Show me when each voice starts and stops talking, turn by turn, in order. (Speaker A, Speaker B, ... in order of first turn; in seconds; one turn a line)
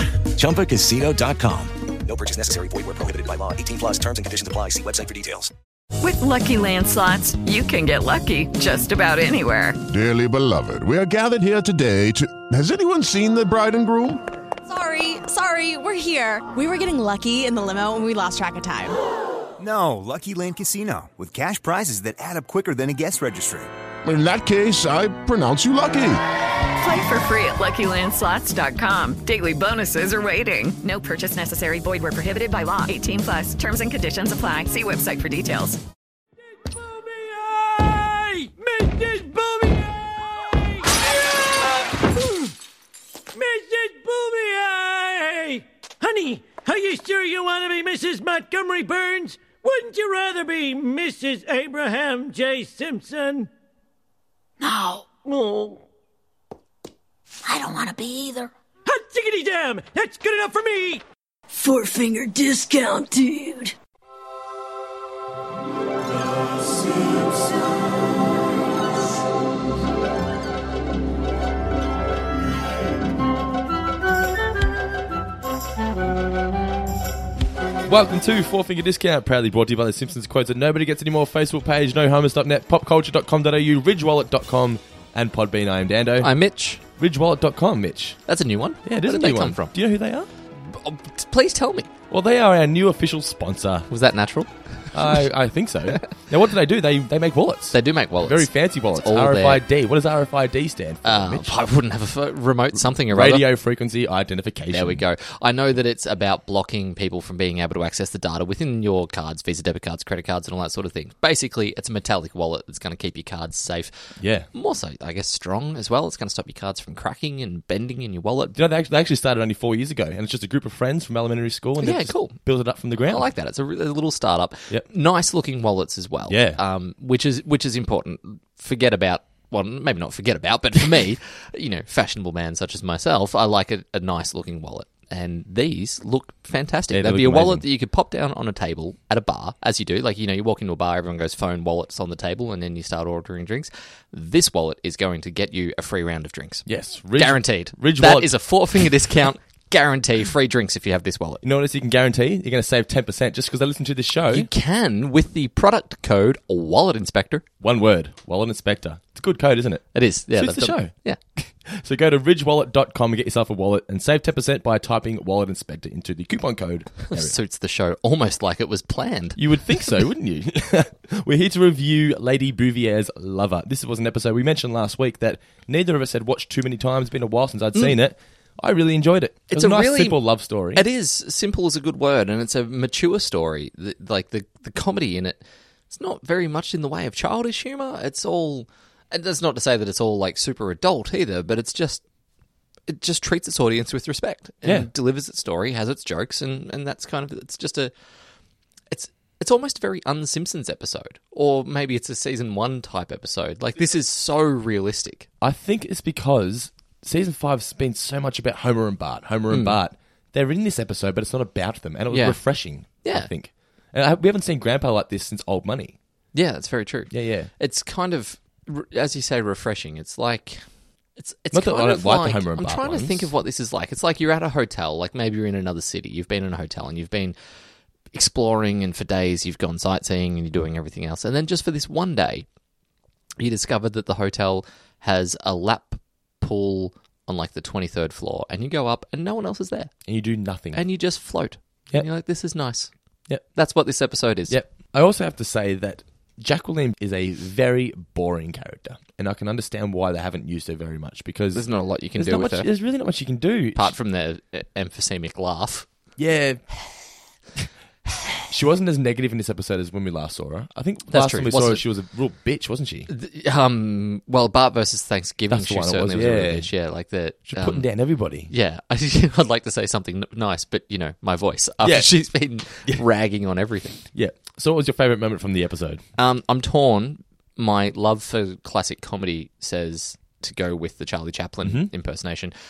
Speaker A: 0.3-5.5
Speaker B: 6.0-9.8
Speaker C: 9.9-14.2
Speaker D: 14.7-19.0
Speaker E: 19.6-23.7
Speaker C: 24.1-26.2
Speaker B: 26.8-35.8
Speaker F: 36.6-42.5
Speaker F: 43.4-53.5
Speaker G: 54.6-55.1
Speaker F: 55.3-55.8
Speaker G: 57.4-58.5
Speaker F: 58.9-61.0
Speaker G: 61.5-63.8
Speaker H: 77.8-86.3
Speaker I: 86.2-86.8
Speaker H: 87.0-88.2
Speaker I: 88.3-89.7
Speaker H: 88.8-90.3
Speaker I: 90.5-91.9
Speaker H: 92.1-93.9
Speaker I: 93.9-95.2
Speaker H: 94.9-101.7
Speaker I: 97.7-99.6
Speaker I: 101.0-103.5
Speaker H: 102.9-105.0
Speaker I: 104.7-118.5
Speaker H: 114.2-114.5
Speaker H: 118.5-123.3
Speaker I: 121.8-122.4
Speaker I: 123.1-151.4
Speaker H: 126.3-126.6
Speaker H: 136.9-137.7
Speaker H: 146.7-148.3
Speaker H: 151.4-154.5
Speaker I: 154.3-157.4
Speaker H: 157.6-160.9
Speaker I: 159.9-161.2
Speaker H: 161.6-167.4
Speaker I: 167.1-169.4
Speaker H: 169.4-180.8
Speaker I: 179.5-192.1
Speaker I: 192.9-197.9
Speaker H: 194.6-194.9
Speaker I: 198.9-205.3
Speaker H: 205.4-216.0
Speaker I: 209.5-209.8
Speaker I: 212.1-212.4
Speaker I: 212.9-213.3
Speaker I: 216.3-220.6
Speaker H: 217.1-217.5
Speaker I: 221.2-227.4
Speaker H: 221.5-223.3
Speaker I: 228.1-232.5
Speaker I: 233.4-239.9
Speaker H: 240.1-240.8
Speaker I: 240.7-242.9
Speaker I: 243.6-244.6
Speaker H: 244.5-253.9
Speaker I: 251.5-252.7
Speaker I: 253.8-255.9
Speaker H: 256.2-256.7
Speaker H: 258.5-263.1
Speaker I: 261.1-261.8
Speaker I: 263.1-267.9
Speaker H: 265.5-266.7
Speaker H: 267.5-268.5
Speaker I: 268.5-274.0
Speaker H: 271.8-272.1
Speaker H: 274.1-276.0
Speaker I: 276.2-282.5
Speaker H: 281.6-281.9